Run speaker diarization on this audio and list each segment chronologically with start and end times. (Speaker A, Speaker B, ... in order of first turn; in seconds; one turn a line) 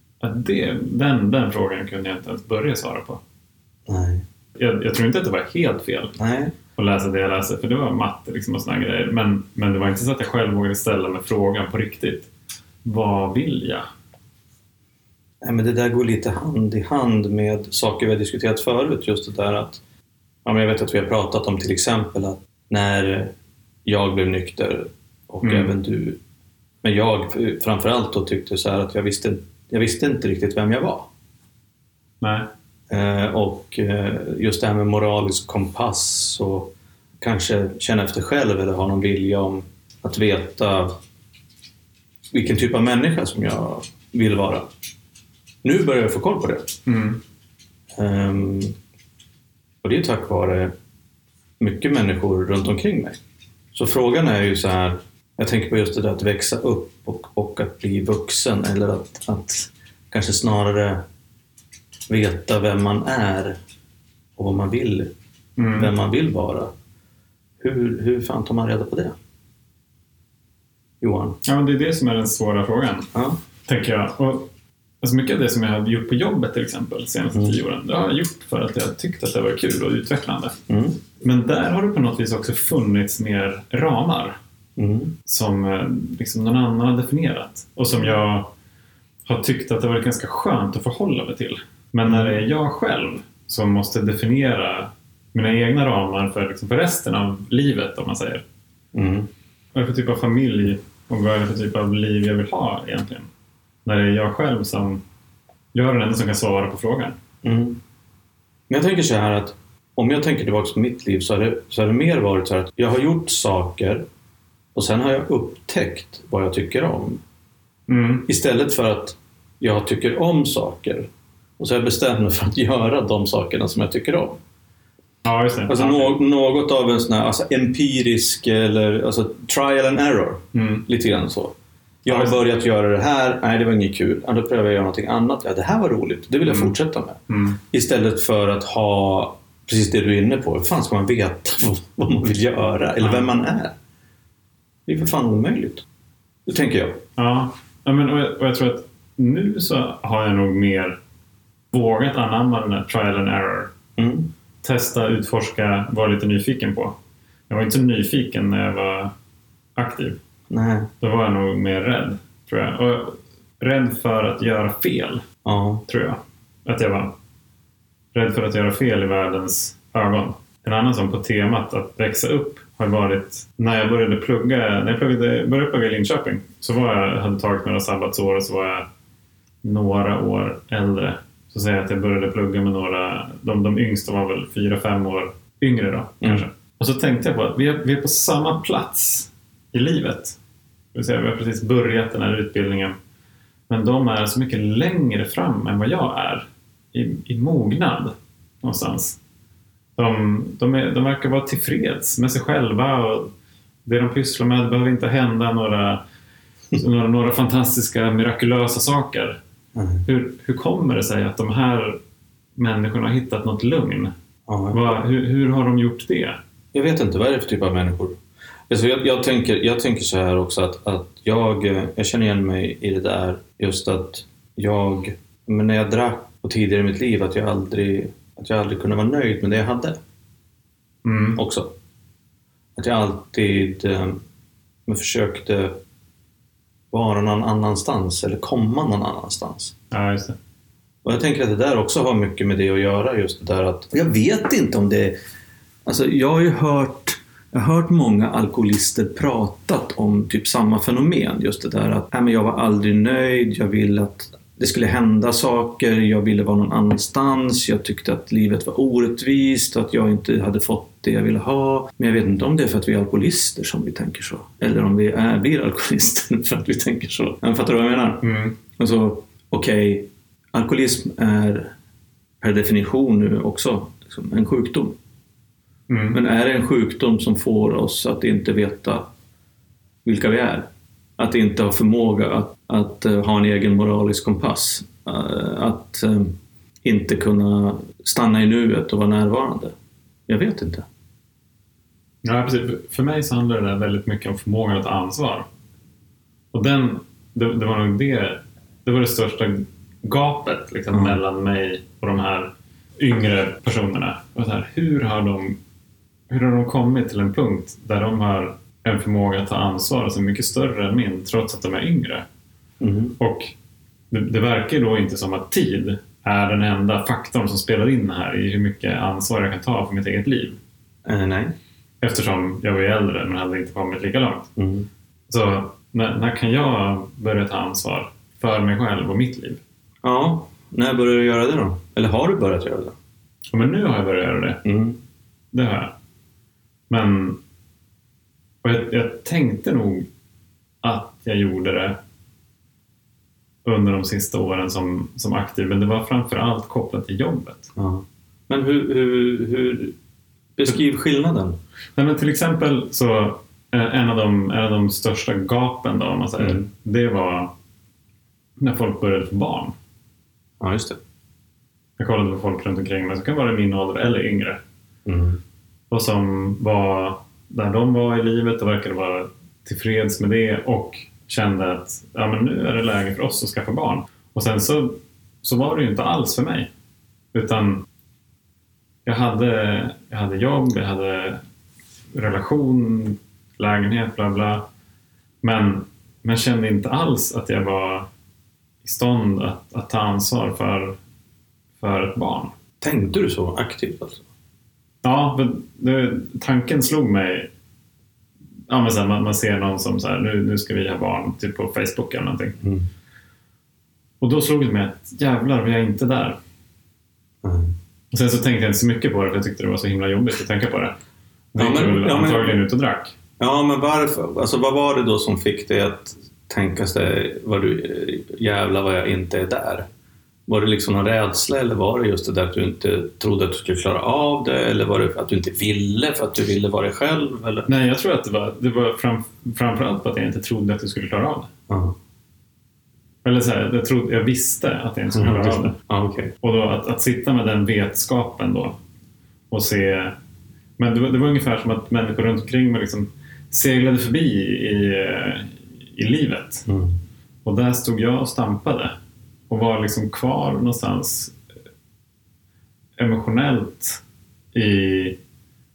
Speaker A: 0.2-3.2
Speaker B: 3.9-4.2
Speaker A: 4.5-6.1
Speaker B: 6.2-6.5
Speaker A: 6.8-12.3
Speaker A: 12.8-13.9
Speaker B: 15.4-19.8
Speaker B: 20.4-23.3
Speaker B: 23.9-26.2
Speaker A: 25.4-25.7
Speaker B: 26.8-31.1
Speaker A: 32.2-32.5
Speaker B: 32.9-41.0
Speaker B: 42.3-44.7
Speaker B: 45.6-46.7
Speaker A: 46.9-47.2
Speaker B: 48.0-48.7
Speaker B: 49.8-50.7
Speaker B: 51.6-53.2
Speaker B: 53.7-61.0
Speaker B: 62.1-63.6
Speaker B: 64.4-65.1
Speaker A: 65.6-65.9
Speaker B: 65.7-66.7
Speaker B: 67.6-69.2
Speaker B: 71.0-71.4
Speaker A: 71.4-73.1
Speaker B: 73.1-73.4
Speaker A: 73.6-74.5
Speaker A: 75.0-80.5
Speaker B: 80.7-81.0
Speaker A: 81.2-84.4
Speaker B: 84.8-85.1
Speaker A: 85.2-88.5
Speaker A: 89.2-98.4
Speaker B: 92.0-92.4
Speaker B: 98.9-99.3
Speaker A: 99.7-103.3
Speaker A: 103.8-105.0
Speaker A: 105.7-107.2
Speaker B: 107.4-107.8
Speaker B: 108.7-114.0
Speaker B: 114.7-117.2
Speaker A: 117.9-118.3
Speaker B: 118.3-121.1
Speaker B: 121.6-124.4
Speaker A: 125.2-126.2
Speaker B: 125.7-131.5
Speaker A: 130.5-130.8
Speaker B: 132.0-143.7
Speaker A: 132.1-132.4
Speaker A: 136.4-136.7
Speaker A: 137.3-137.6
Speaker A: 143.0-143.3
Speaker B: 144.9-145.8
Speaker B: 146.5-147.0
Speaker A: 147.2-151.0
Speaker A: 151.7-153.7
Speaker B: 154.0-154.3
Speaker A: 154.6-156.9
Speaker A: 157.5-159.1
Speaker A: 159.8-160.2
Speaker B: 160.5-160.9
Speaker A: 161.0-165.2
Speaker B: 165.4-165.8
Speaker A: 165.9-167.1
Speaker A: 168.1-178.9
Speaker A: 179.6-190.4
Speaker A: 190.9-193.0
Speaker A: 193.7-199.2
Speaker A: 199.9-203.3
Speaker A: 203.8-206.0
Speaker A: 206.7-209.4
Speaker B: 209.7-210.0
Speaker A: 210.1-212.0
Speaker A: 212.6-214.1
Speaker B: 214.5-214.8
Speaker A: 214.7-216.4
Speaker B: 216.7-218.2
Speaker B: 218.7-230.0
Speaker A: 231.0-231.4
Speaker B: 231.3-231.7
Speaker B: 232.8-234.2
Speaker B: 234.9-235.8
Speaker B: 236.9-239.7
Speaker A: 239.9-240.4
Speaker B: 241.0-245.2
Speaker B: 245.8-268.2
Speaker A: 268.2-268.6
Speaker B: 268.8-271.7
Speaker B: 272.4-274.9
Speaker A: 275.9-276.2
Speaker B: 276.1-279.1
Speaker B: 280.0-289.7
Speaker B: 290.3-290.9
Speaker A: 292.2-295.4
Speaker A: 296.5-305.6
Speaker B: 300.9-301.2
Speaker A: 306.3-312.2
Speaker B: 312.8-313.2
Speaker A: 313.2-313.5
Speaker A: 314.1-320.6
Speaker B: 321.1-321.5
Speaker A: 322.0-324.5
Speaker B: 324.6-324.9
Speaker A: 325.3-329.6
Speaker B: 330.0-332.9
Speaker A: 333.5-334.6
Speaker B: 334.6-335.0
Speaker A: 335.5-335.9
Speaker A: 336.9-337.4
Speaker A: 338.6-340.1
Speaker A: 340.8-342.0
Speaker A: 343.6-347.7
Speaker B: 347.8-349.9
Speaker B: 350.6-351.6
Speaker A: 351.9-357.5
Speaker B: 356.4-356.6
Speaker A: 358.6-359.7
Speaker B: 360.6-361.0
Speaker A: 362.0-364.6
Speaker B: 365.1-365.4
Speaker A: 365.9-376.7
Speaker A: 377.3-377.8
Speaker A: 379.0-381.4
Speaker A: 382.1-384.6
Speaker A: 385.4-388.1
Speaker A: 388.8-391.0
Speaker A: 391.8-392.5
Speaker B: 392.8-394.2
Speaker A: 395.0-397.5
Speaker A: 398.7-402.6
Speaker B: 402.6-402.9
Speaker A: 404.2-406.4
Speaker B: 407.4-407.7
Speaker A: 408.1-410.9
Speaker A: 411.5-413.1
Speaker B: 411.6-412.6
Speaker B: 413.4-419.9
Speaker B: 420.5-427.7
Speaker A: 427.7-431.5
Speaker B: 431.7-431.9
Speaker A: 433.2-435.7
Speaker B: 435.1-436.3
Speaker A: 436.4-438.8
Speaker A: 439.5-440.1
Speaker A: 440.8-446.6
Speaker B: 446.7-447.0
Speaker A: 447.4-448.9
Speaker A: 449.5-451.4
Speaker A: 453.0-454.0
Speaker A: 454.5-455.2